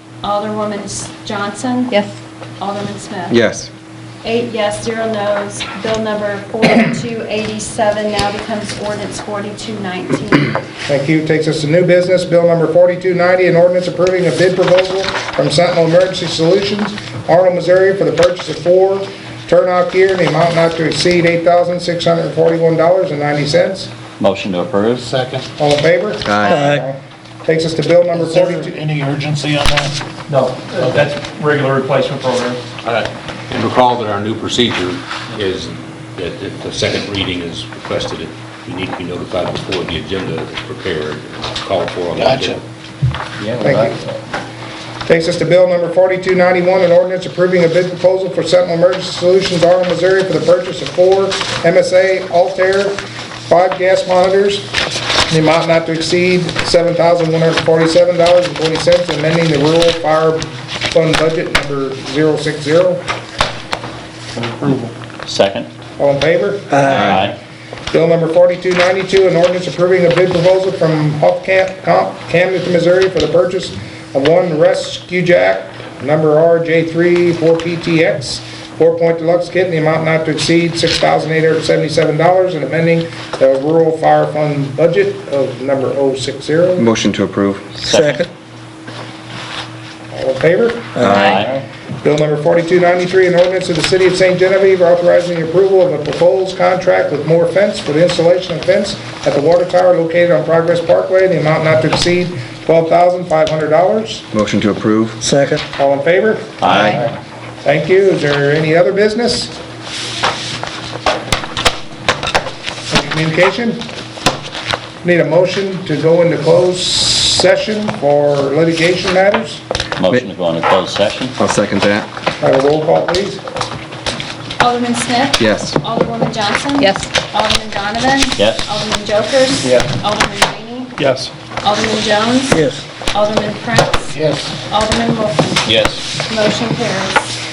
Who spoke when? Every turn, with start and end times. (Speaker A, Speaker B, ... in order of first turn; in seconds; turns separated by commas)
Speaker A: 0.2-2.0, Speaker A: 2.6-3.4, Speaker B: 3.3-3.7, Speaker A: 4.2-10.6, Speaker C: 10.9-23.9, Speaker D: 24.2-25.1, Speaker E: 25.0-25.5, Speaker C: 25.6-28.8, Speaker B: 26.3-26.6, Speaker F: 26.5-26.8, Speaker E: 28.1-30.0, Speaker G: 30.3-32.6, Speaker H: 32.8-42.6, Speaker E: 42.2-42.6, Speaker C: 43.6-44.0, Speaker C: 45.1-54.7, Speaker C: 55.3-63.0, Speaker D: 65.2-65.7, Speaker C: 66.0-66.8, Speaker F: 66.7-67.1, Speaker D: 66.8-67.4, Speaker C: 67.9-86.9, Speaker B: 86.8-87.7, Speaker D: 87.8-88.3, Speaker F: 87.8-88.3, Speaker C: 90.1-91.0, Speaker F: 91.0-91.3, Speaker B: 91.1-91.4, Speaker D: 91.1-91.7, Speaker C: 92.0-104.3, Speaker B: 104.3-105.2, Speaker F: 105.2-105.6, Speaker C: 105.8-107.1, Speaker D: 106.6-107.1, Speaker C: 107.6-109.5, Speaker C: 112.9-113.9, Speaker C: 115.0-119.6, Speaker D: 120.0-121.3, Speaker B: 121.4-122.1, Speaker C: 122.4-123.4, Speaker A: 124.6-131.0, Speaker B: 125.4-125.7, Speaker G: 126.8-127.1, Speaker D: 128.4-128.7, Speaker A: 131.6-137.4, Speaker F: 132.6-132.8, Speaker E: 134.2-134.5, Speaker D: 135.7-136.0